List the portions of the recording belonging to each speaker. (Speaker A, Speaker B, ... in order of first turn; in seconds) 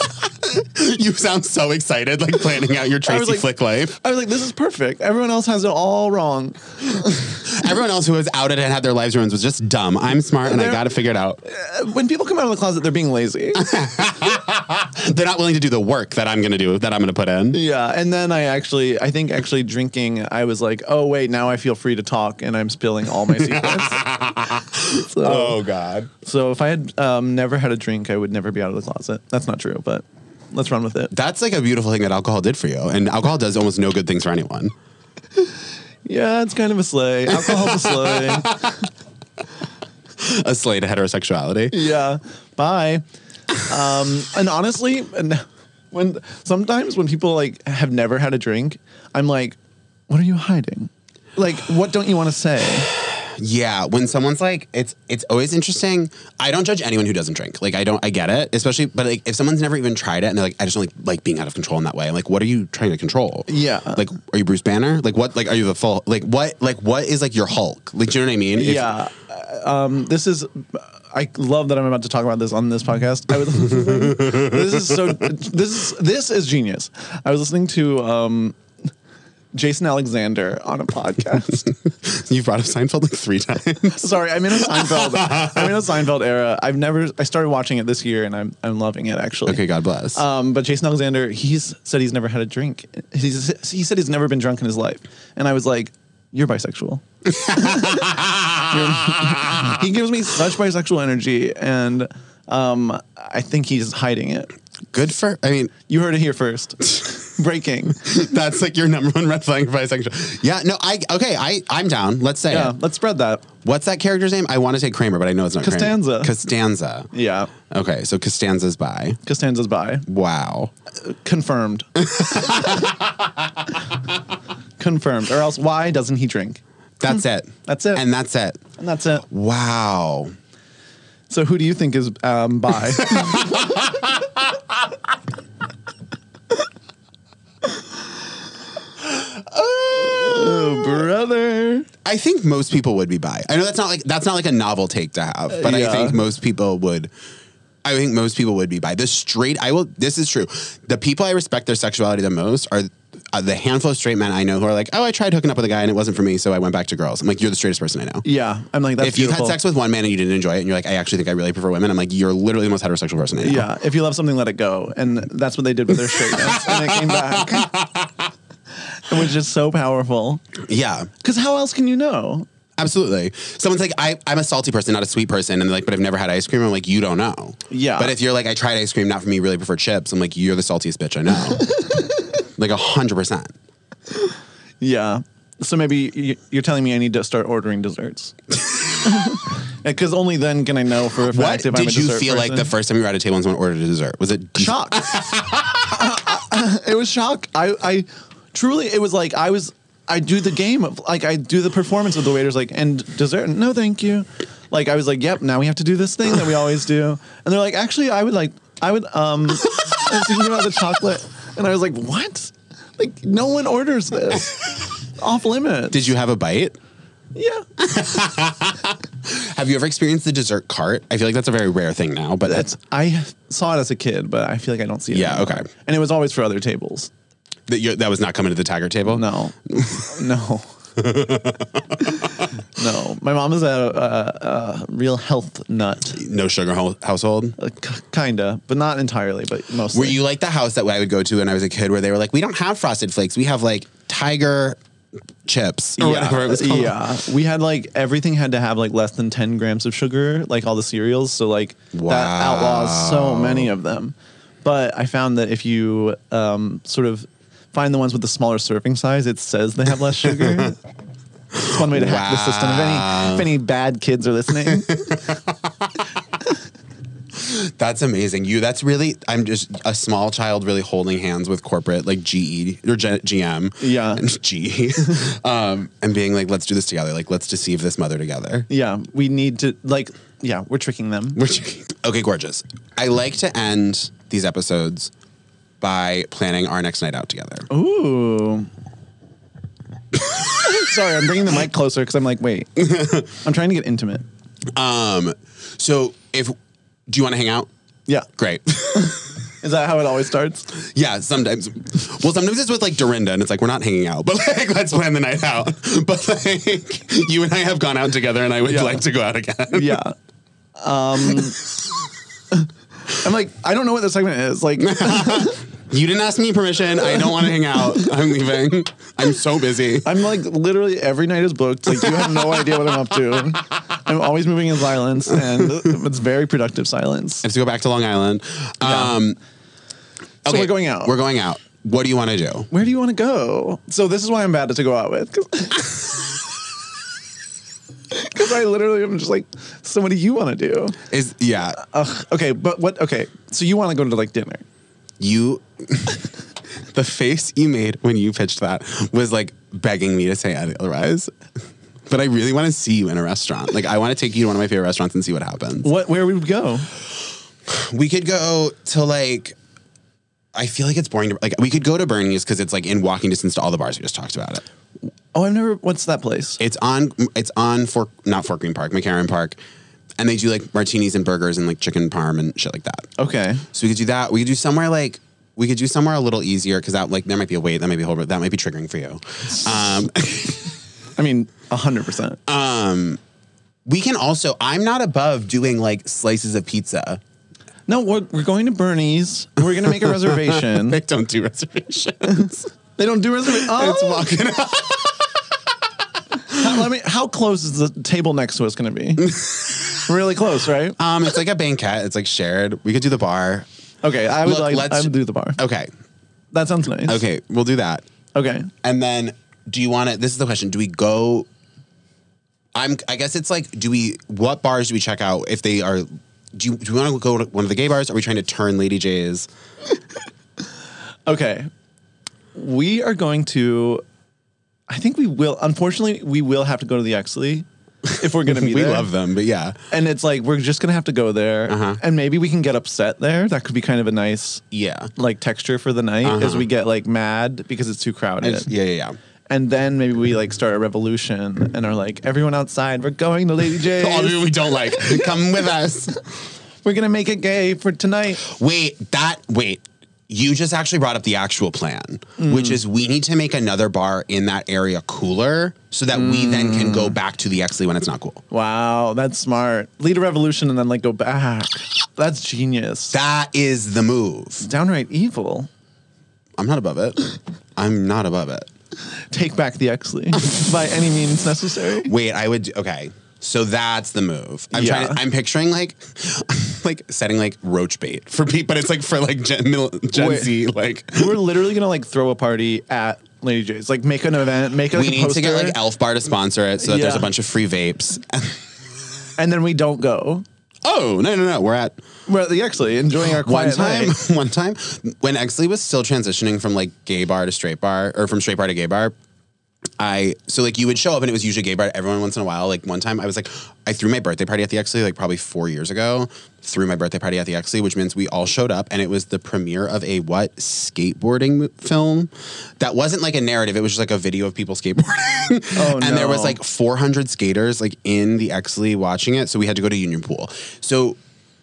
Speaker A: 0.7-3.9, 7.4-11.4, 13.7-17.6, 23.5-26.1, 31.1-34.7, 37.4-38.4, 40.2-41.7, 53.2-68.9, 81.9-84.1, 89.5-90.2, 104.9-105.7, 108.0-112.7, 113.6-117.1, 117.7-119.2, 120.1-120.7, 127.0-128.6, 129.3-130.3, 142.0-147.1, 147.8-158.2, 159.0-163.7, 167.5-167.8, 170.6-171.1, 172.8-181.6, 182.6-183.5, 191.3-195.4, 215.9-216.8, 218.0-222.7, 225.1-225.7, 227.7-229.2, 231.0-231.8, 236.2-237.6, 239.9-244.8, 245.4-247.0, 251.9-253.7, 261.9-263.5, 267.4-278.7, 281.4-285.1, 285.8-287.7, 294.8-296.5, 297.1-297.7, 298.4-299.2, 300.9-310.0, 314.8-320.2, 327.4-329.4, 330.4-332.7, 341.1-341.8, 345.2-346.1, 346.9-351.3, 352.1-355.9, 357.7-359.6, 360.6-364.6, 366.6-369.6, 370.2-373.1, 373.7-380.7, 382.5-383.2, 383.9-387.2, 390.7-392.7, 393.7-395.2, 401.0-403.6, 404.4-405.9, 407.1-408.1, 408.8-411.5, 412.7-419.5, 428.5-429.8, 431.7-432.0, 434.7-435.1, 436.2-436.6, 438.4-439.2, 443.9-446.2, 448.5-458.4, 463.1-464.7, 466.6-467.2, 467.8-468.7, 472.1-481.4, 484.9-488.6, 490.8-492.0, 493.4-499.1, 500.0-521.2
Speaker B: 3.0-7.2, 10.4-10.8, 11.4-13.7, 17.5-24.2, 25.0-25.6, 26.2-31.1, 36.0-38.8, 41.7-49.6, 50.1-52.9, 63.5-64.1, 68.5-78.6, 79.5-81.7, 83.9-104.5, 105.8-108.1, 112.5-113.5, 115.6-116.3, 117.1-117.5, 119.2-120.0, 121.0-122.8, 124.8-126.6, 127.7-128.0, 128.8-129.2, 131.3-133.9, 139.7-141.9, 145.5-146.2, 158.2-159.6, 163.4-167.7, 168.9-170.4, 171.2-172.5, 177.7-178.2, 184.8-188.3, 188.9-192.7, 194.6-214.6, 215.2-216.1, 217.3-217.7, 222.4-227.1, 229.1-230.7, 232.1-236.2, 237.6-240.2, 246.0-260.8, 261.5-265.2, 273.8-274.3, 278.7-281.4, 287.7-288.7, 290.5-294.2, 298.9-300.7, 308.6-309.1, 309.7-310.1, 310.8-311.7, 313.1-315.6, 317.0-318.0, 320.0-327.4, 328.8-329.2, 330.4-331.2, 332.7-336.0, 338.1-341.0, 341.8-344.6, 355.8-356.9, 365.3-366.6, 373.2-373.6, 381.2-382.4, 387.9-391.0, 393.0-394.3, 396.5-401.0, 404.0-405.6, 406.5-407.2, 408.3-408.7, 421.2-421.7, 422.5-424.0, 424.9-429.1, 429.9-434.6, 435.1-438.7, 439.5-445.5, 446.8-448.4, 452.4-452.8, 456.1-457.2, 458.5-463.2, 464.6-465.7, 469.3-472.1, 474.7-475.2, 480.1-480.5, 481.1-485.8, 486.8-487.3, 489.4-490.4, 492.3-494.1, 515.7-516.6